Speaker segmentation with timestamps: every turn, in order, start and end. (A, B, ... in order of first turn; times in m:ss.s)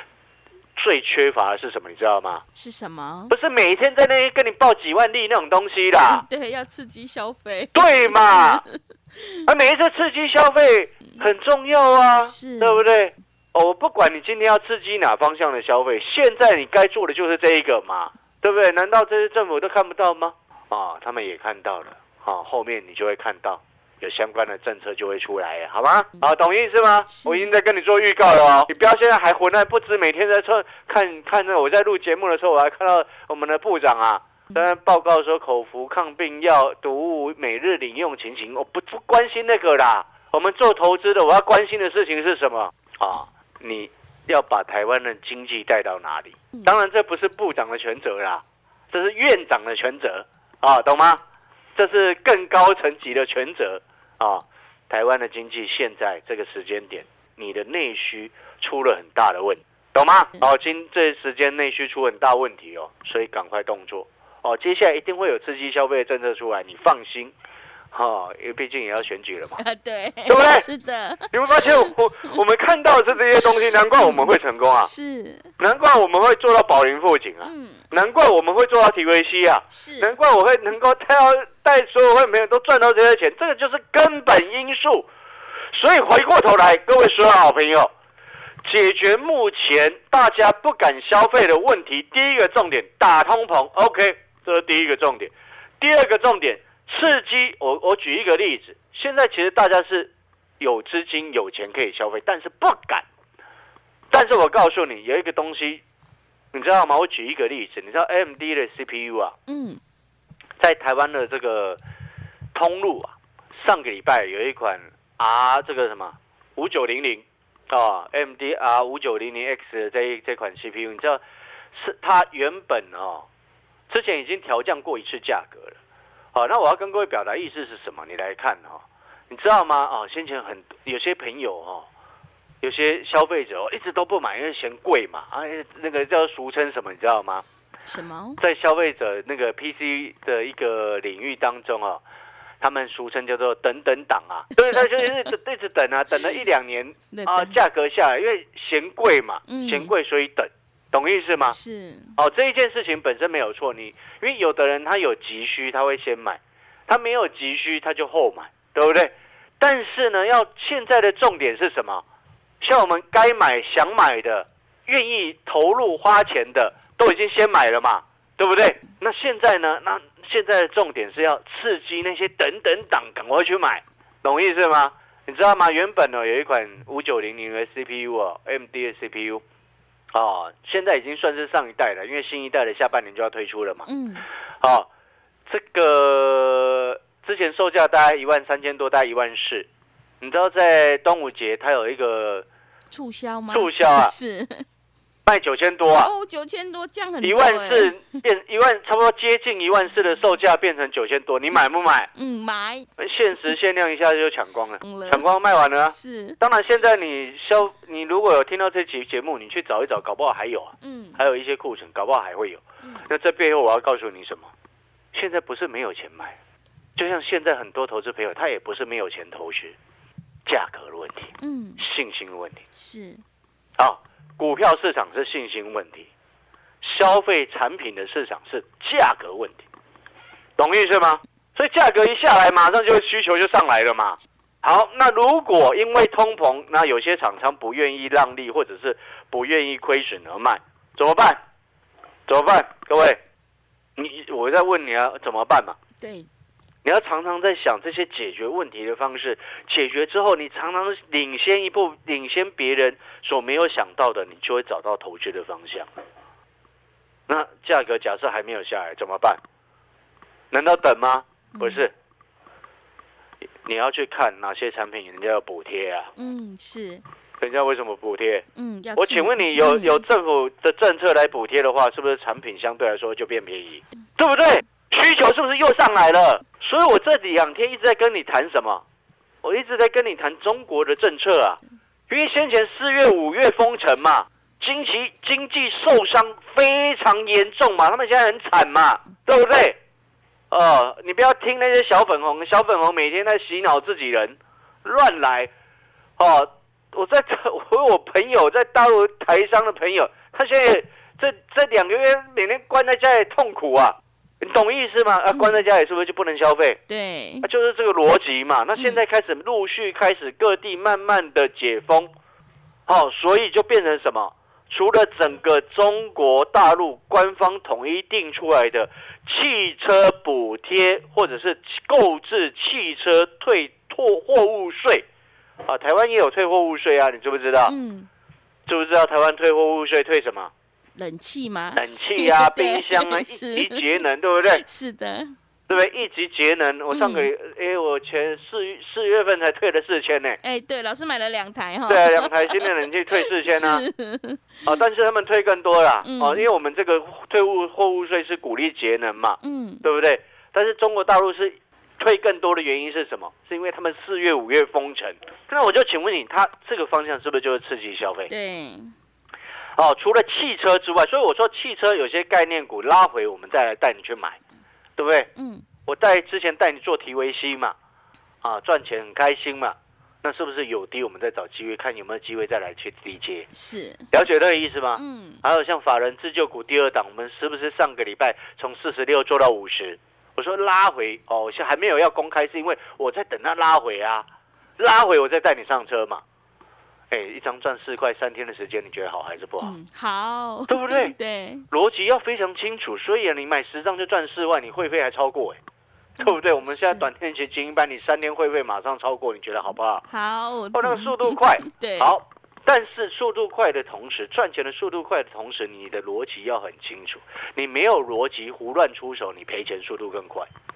0:00.8-0:02.4 A
0:02.6-0:03.3 B
0:03.3-0:06.2 A
0:06.0-0:09.5 B
0:07.8-0:08.6 A
0:09.5-0:51.2 A
0:12.2-0:12.8 B
0:27.1-0:27.5 B
0:51.8-1:07.3 A
1:07.9-1:09.6 A
1:09.6-1:12.4 B
1:10.3-1:10.7 A
1:11.3-1:14.9 A
1:13.4-1:15.5 B
1:15.6-1:25.1 A
1:17.4-1:17.8 B
1:19.7-1:20.2 B
1:25.7-1:27.9 A
1:28.6-1:43.1 A
1:44.1-1:45.8 A
1:46.5-1:49.4 A
1:49.5-1:49.8 B
1:50.6-1:51.8 A
1:52.5-2:01.2 A
2:01.7-2:03.3 A
2:03.9-2:05.8 A
2:06.3-2:11.9 A
2:12.6-2:17.4 A
2:17.8-2:18.4 B
2:18.4-2:22.0 A
2:22.6-2:31.6 A
2:24.6-2:25.3 B
2:27.1-2:27.6 B
2:29.5-2:29.9 B
2:31.5-2:32.2 B
2:32.2-2:42.0 A
2:42.6-2:59.4 A
3:00.1-3:03.9 A
3:03.9-3:04.3 B
3:04.6-3:04.9 A
3:05.5-3:09.7 A
3:10.2-3:12.5 A
3:12.9-3:14.7 B
3:13.5-3:14.1 A
3:15.3-3:16.1 A
3:15.9-3:18.2 B
3:17.2-3:22.1 A
3:22.1-3:22.9 B
3:23.0-3:34.5 A
3:24.8-3:25.3 B
3:25.9-3:26.4 B
3:30.8-3:31.2 B
3:32.8-3:33.1 B
3:35.1-3:36.4 A
3:37.0-3:39.8 A
3:40.5-3:42.6 A
3:41.4-3:41.8 B
3:42.8-3:43.2 B
3:43.8-3:46.1 A
3:46.8-3:49.6 A
3:50.6-4:01.4 A
4:02.3-4:03.2 A
4:04.0-4:05.8 A
4:06.0-4:06.3 B
4:06.8-4:15.9 A
4:17.3-4:19.4 A
4:20.5-4:21.9 A
4:21.5-4:21.9 B
4:23.6-4:26.1 A
4:26.2-4:27.0 B
4:27.4-4:38.8 A
4:28.6-4:30.0 B
4:39.4-4:49.8 A
4:50.5-4:55.5 A
4:56.2-5:06.8 A
5:05.3-5:05.6 B
5:06.9-5:07.5 B
5:07.4-5:12.1 A
5:12.9-5:25.1 A
5:25.7-5:27.8 A
5:27.6-5:28.1 B
5:28.7-5:30.5 A
5:31.0-5:35.4 B
5:31.8-5:34.6 A
5:35.7-5:40.4 A
5:36.9-5:37.3 B
5:40.4-5:44.7 B
5:41.9-5:43.8 A
5:44.6-5:58.3 A
5:46.0-5:46.5 B
5:49.4-5:49.9 B
5:58.3-5:59.0 B
5:59.8-6:04.4 A
6:05.0-6:05.3 A
6:05.4-6:05.6 B
6:05.9-6:07.8 A
6:08.4-6:13.5 A
6:13.5-6:14.1 B
6:14.1-6:24.3 A
6:15.0-6:15.4 B
6:24.8-6:26.2 A
6:27.1-6:29.7 A
6:29.6-6:31.7 B
6:30.7-6:31.1 A
6:31.7-6:35.6 A
6:36.2-6:37.1 B
6:36.2-6:40.0 A
6:40.1-6:42.1 B
6:40.7-6:50.5 A